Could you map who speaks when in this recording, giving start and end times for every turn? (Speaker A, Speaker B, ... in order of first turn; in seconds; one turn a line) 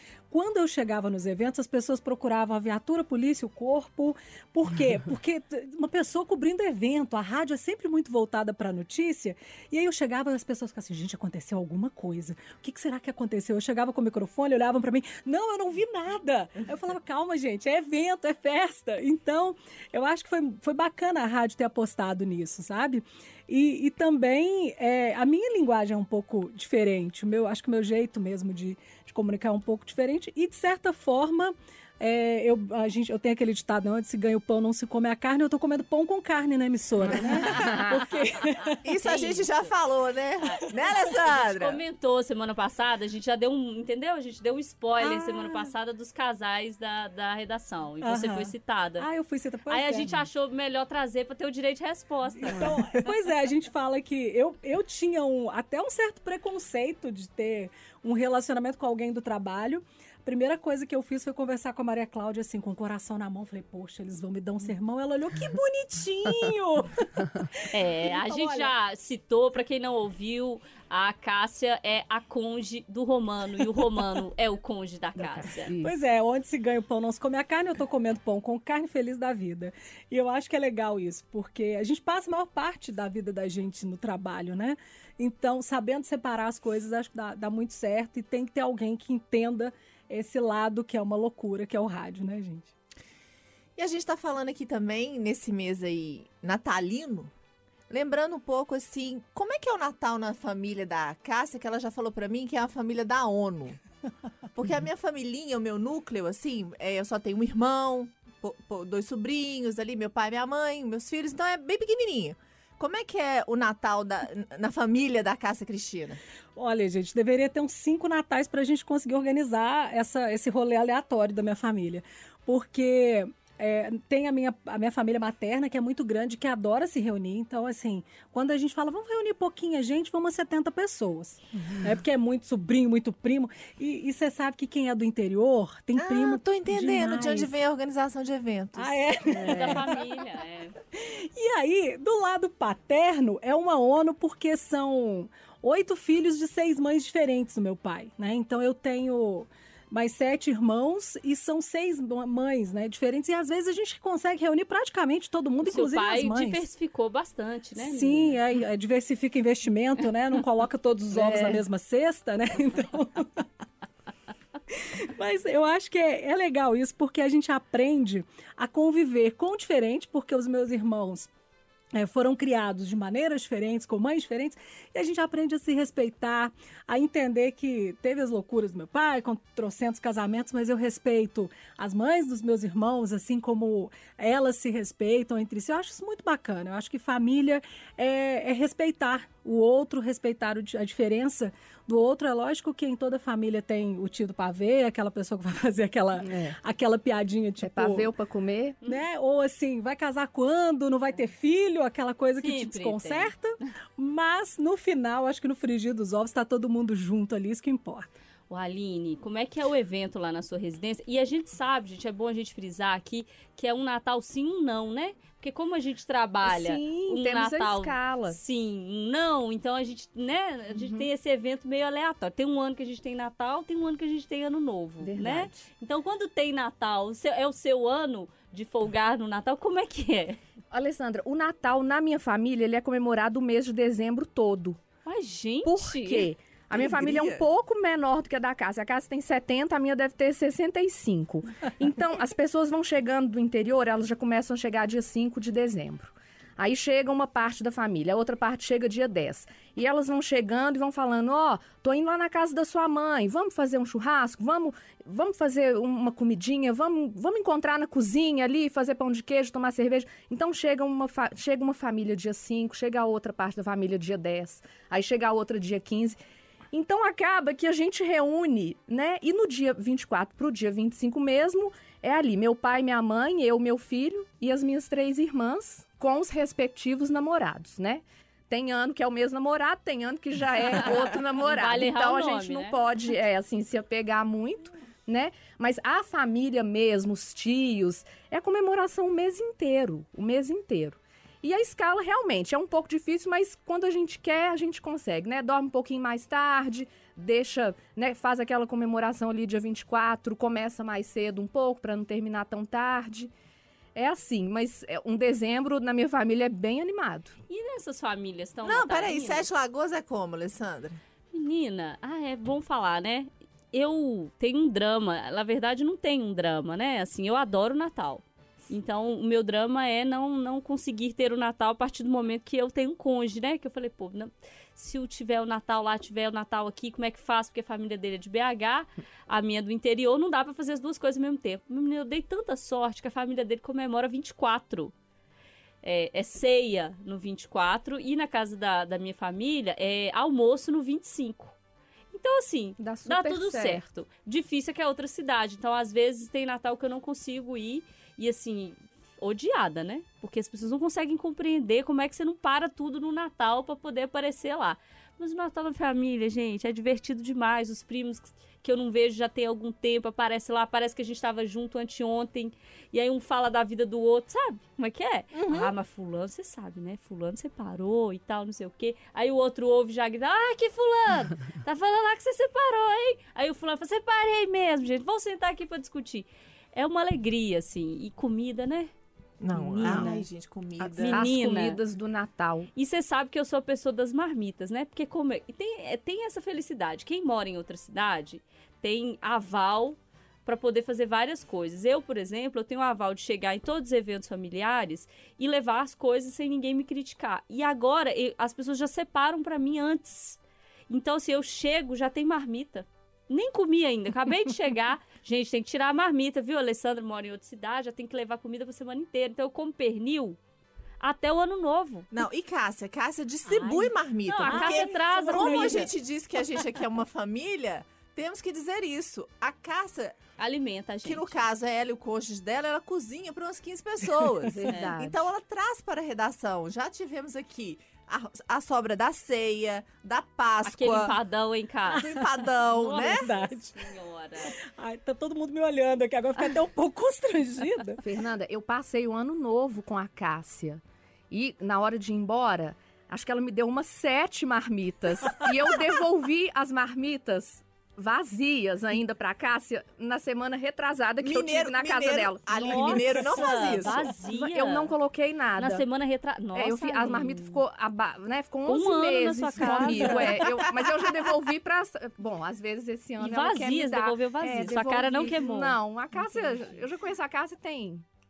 Speaker A: 0.3-38.8
Speaker B: 37.4-38.0
Speaker C: 38.8-41.8
Speaker D: 39.0-39.7
Speaker D: 40.4-49.1
Speaker A: 45.0-45.7
Speaker A: 48.0-50.3
Speaker D: 49.7-52.7
Speaker A: 52.4-68.7
Speaker D: 67.7-75.7
Speaker B: 75.2-75.9
Speaker A: 75.8-92.7
Speaker C: 93.8-97.3
Speaker C: 97.9-103.8
Speaker C: 104.5-116.2
Speaker A: 116.6-137.5
Speaker C: 136.0-139.1
Speaker A: 138.8-140.1
Speaker D: 139.3-140.8
Speaker A: 140.9-156.6
Speaker D: 155.6-158.4
Speaker A: 157.8-163.5
Speaker B: 161.1-161.6
Speaker A: 164.7-171.3
Speaker A: 171.9-198.1
Speaker B: 196.2-196.6
Speaker B: 197.6-198.8
Speaker A: 198.8-208.1
Speaker D: 202.4-203.3
Speaker D: 208.5-230.4
Speaker B: 216.4-218.4
Speaker B: 225.0-225.6
Speaker B: 230.7-234.8
Speaker D: 235.1-236.3
Speaker B: 235.6-266.2
Speaker C: 236.7-237.4
Speaker B: 266.7-303.3
Speaker D: 280.8-282.8
Speaker B: 303.9-307.4
Speaker D: 307.5-309.5
Speaker C: 308.6-311.0
Speaker D: 311.3-334.9
Speaker D: 335.8-341.6
Speaker D: 342.1-378.9
Speaker B: 342.8-343.8
Speaker C: 365.3-365.7
Speaker C: 379.4-381.2
Speaker D: 379.5-380.2
Speaker B: 379.8-380.2
Speaker D: 380.8-381.8
Speaker B: 381.0-382.7
Speaker D: 382.8-400.4
Speaker D: 400.9-410.4
Speaker D: 411.0-412.1
Speaker C: 412.1-420.2
Speaker D: 413.5-415.9
Speaker A: 414.4-415.9
Speaker D: 420.4-421.4
Speaker C: 421.0-431.2
Speaker B: 424.5-425.3
Speaker D: 430.6-432.1
Speaker A: 431.9-433.9
Speaker C: 431.9-433.3
Speaker D: 432.8-434.6
Speaker A: 434.4-438.1
Speaker B: 438.0-440.8
Speaker B: 441.3-453.1
Speaker C: 451.2-454.1
Speaker D: 452.6-454.9
Speaker B: 454.2-455.9
Speaker D: 455.6-457.6
Speaker B: 456.5-468.1
Speaker D: 458.7-460.5
Speaker A: 459.6-460.2
Speaker D: 463.2-466.8